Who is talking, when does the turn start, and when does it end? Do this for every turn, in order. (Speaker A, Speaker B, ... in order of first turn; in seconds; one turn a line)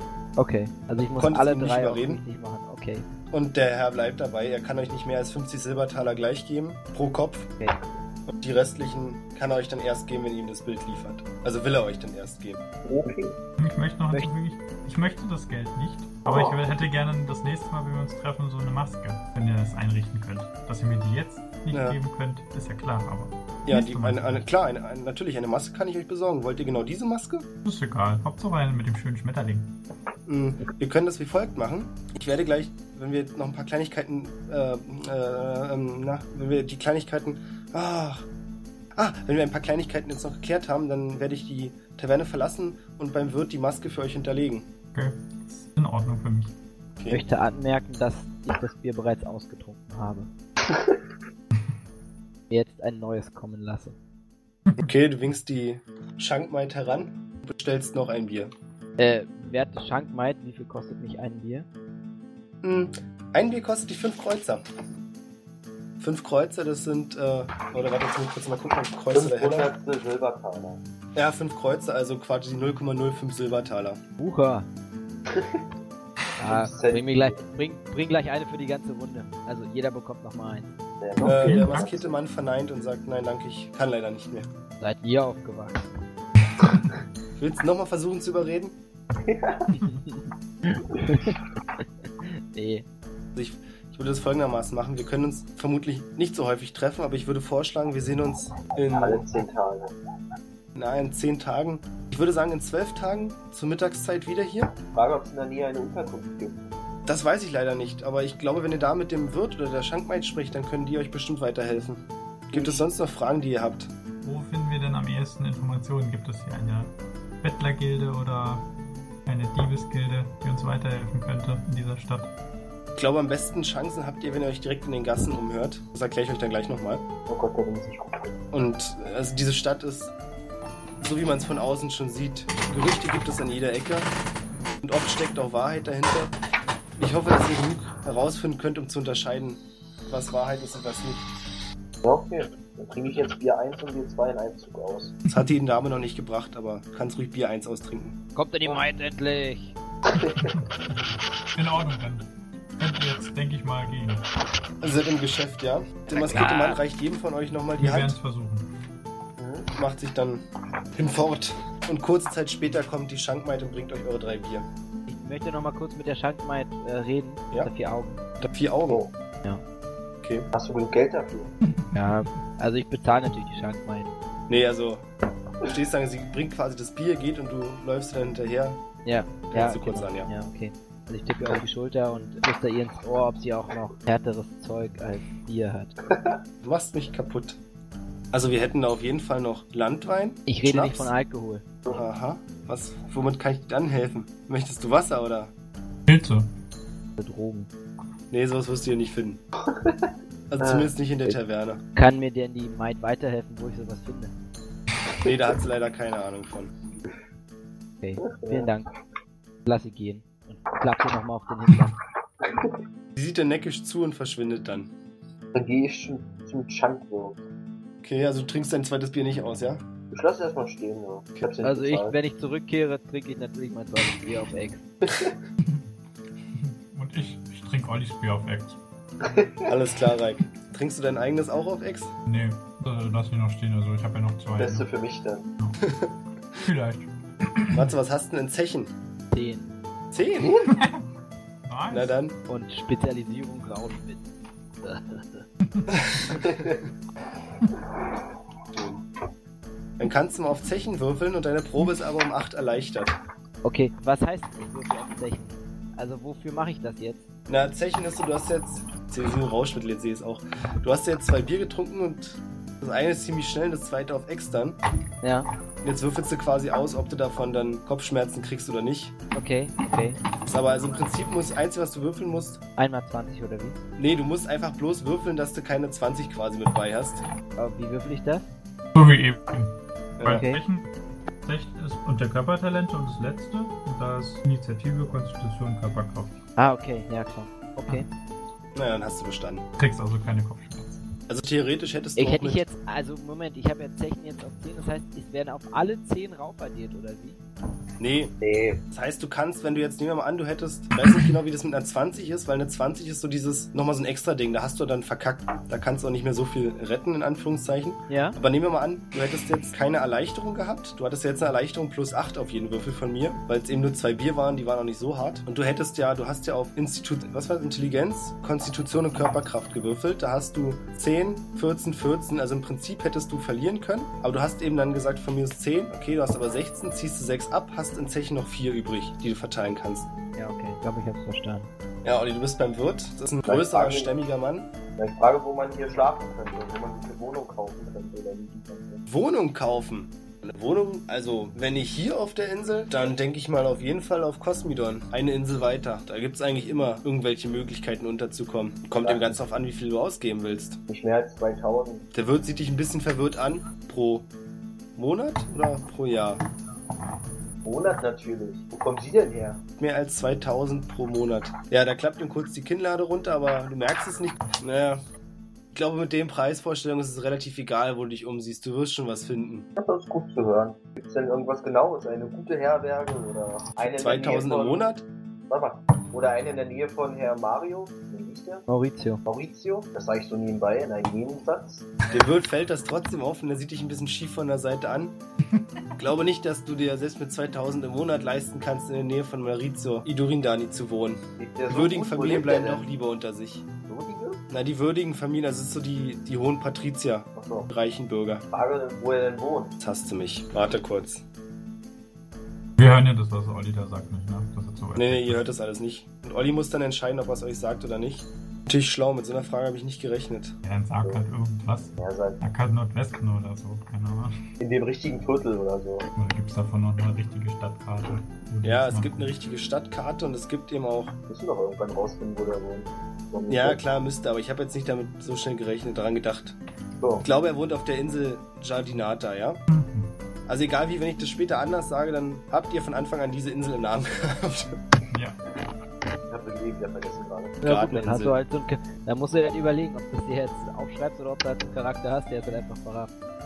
Speaker A: 0.4-3.1
Speaker B: 1.0-2.2
Speaker B: 3.3-7.5
Speaker A: 7.6-7.8
Speaker B: 8.3-12.6
Speaker C: 12.8-13.4
Speaker D: 13.6-24.4
Speaker C: 16.2-16.6
Speaker B: 21.7-22.0
Speaker B: 23.6-27.4
Speaker D: 27.6-29.7
Speaker B: 30.3-38.2
Speaker B: 39.0-44.7
Speaker D: 44.9-46.5
Speaker B: 47.0-47.3
Speaker A: 47.1-50.3
Speaker A: 52.5-54.0
Speaker B: 54.8-58.5
Speaker A: 59.0-61.6
Speaker B: 62.6-64.6
Speaker B: 66.0-69.7
Speaker C: 69.1-70.8
Speaker B: 71.1-74.0
Speaker A: 74.2-74.7
Speaker C: 75.3-75.6
Speaker A: 76.4-80.7
Speaker C: 76.4-77.4
Speaker C: 81.0-82.2
Speaker D: 81.2-81.9
Speaker B: 81.2-84.5
Speaker A: 84.8-85.8
Speaker B: 87.3-88.8
Speaker C: 89.2-89.7
Speaker A: 89.7-92.8
Speaker B: 93.3-99.2
Speaker C: 98.9-99.9
Speaker B: 100.7-104.8
Speaker C: 104.9-106.7
Speaker B: 107.0-113.9
Speaker C: 112.5-112.8
Speaker D: 114.2-118.7
Speaker D: 119.2-122.3
Speaker B: 123.0-127.0
Speaker C: 127.3-128.3
Speaker B: 128.5-130.1
Speaker B: 131.0-134.1
Speaker B: 134.8-136.3
Speaker B: 137.0-141.2
Speaker C: 142.0-145.2
Speaker B: 145.3-148.2
Speaker A: 148.3-149.8
Speaker D: 150.2-150.9
Speaker C: 150.2-150.5
Speaker D: 151.5-154.2
Speaker B: 154.8-158.2
Speaker A: 156.1-156.8
Speaker D: 157.8-158.7
Speaker C: 159.4-159.7
Speaker B: 159.8-160.4
Speaker B: 160.9-164.7
Speaker A: 165.1-168.2
Speaker B: 168.4-169.0
Speaker B: 170.2-170.5
Speaker C: 170.5-171.5
Speaker D: 171.7-172.2
Speaker A: 171.9-174.1
Speaker B: 174.5-175.1
Speaker B: 175.7-178.8
Speaker A: 179.0-185.9
Speaker B: 179.5-180.3
Speaker C: 186.0-186.4
Speaker B: 186.6-187.6
Speaker B: 188.3-191.1
Speaker A: 190.5-191.6
Speaker B: 191.9-195.5
Speaker D: 196.1-196.5
Speaker A: 197.2-197.7
Speaker B: 198.3-199.4
Speaker C: 199.7-200.1
Speaker B: 200.5-201.8
Speaker C: 200.6-200.9
Speaker A: 201.9-204.3
Speaker B: 205.2-206.7
Speaker A: 208.0-208.9
Speaker C: 208.2-208.7
Speaker A: 209.7-211.9
Speaker B: 213.2-214.9
Speaker C: 215.5-217.4
Speaker B: 218.0-219.8
Speaker C: 220.1-222.2
Speaker A: 221.6-224.9
Speaker D: 226.5-228.8
Speaker C: 229.2-229.7
Speaker B: 229.7-232.1
Speaker D: 232.3-234.9
Speaker C: 234.6-235.5
Speaker B: 235.8-236.1
Speaker D: 236.6-237.9
Speaker B: 237.7-238.9
Speaker A: 239.3-239.7
Speaker B: 240.1-240.7
Speaker D: 240.6-241.0
Speaker D: 241.6-242.2
Speaker B: 241.9-242.3
Speaker A: 242.5-244.2
Speaker A: 244.8-245.4
Speaker D: 245.6-246.4
Speaker B: 248.7-249.0
Speaker B: 250.0-253.2
Speaker A: 253.6-257.2
Speaker B: 257.5-264.8
Speaker A: 265.2-265.5
Speaker B: 265.8-269.1
Speaker A: 269.3-270.2
Speaker B: 270.4-272.6
Speaker A: 272.8-273.8
Speaker B: 274.0-277.2
Speaker A: 277.6-278.5
Speaker D: 278.9-280.8
Speaker B: 280.2-280.5
Speaker A: 280.2-280.6
Speaker D: 281.4-286.4
Speaker A: 286.6-288.1
Speaker B: 288.7-289.6
Speaker D: 289.8-291.1
Speaker B: 291.3-292.6
Speaker A: 292.1-297.4
Speaker B: 298.0-298.3
Speaker C: 298.4-298.8
Speaker B: 298.9-330.1
Speaker A: 308.1-308.4
Speaker A: 330.4-331.7
Speaker B: 332.0-334.7
Speaker C: 333.4-334.1
Speaker C: 335.0-339.0
Speaker B: 339.1-350.8
Speaker C: 349.0-349.4
Speaker C: 350.9-352.1
Speaker B: 352.1-354.3
Speaker B: 355.0-356.4
Speaker C: 357.6-359.6
Speaker B: 359.8-365.0
Speaker B: 365.7-369.7
Speaker C: 369.8-374.9
Speaker B: 373.9-375.1
Speaker C: 375.5-378.6
Speaker A: 378.7-379.2
Speaker C: 379.2-381.9
Speaker B: 382.1-385.1
Speaker B: 386.0-393.6
Speaker C: 391.4-392.9
Speaker C: 393.9-394.4
Speaker B: 394.5-398.4
Speaker C: 397.3-397.7
Speaker C: 398.5-399.8
Speaker B: 399.8-401.2
Speaker D: 402.8-405.4
Speaker B: 404.9-410.6
Speaker D: 410.6-414.3
Speaker C: 412.0-412.4
Speaker C: 414.6-416.1
Speaker D: 416.1-419.3
Speaker B: 418.6-421.1
Speaker C: 421.3-423.8
Speaker B: 423.5-426.6
Speaker B: 427.2-429.6
Speaker D: 429.7-430.1
Speaker B: 430.5-434.8
Speaker D: 435.1-435.4
Speaker C: 436.3-437.9
Speaker A: 437.6-443.1
Speaker B: 437.6-438.3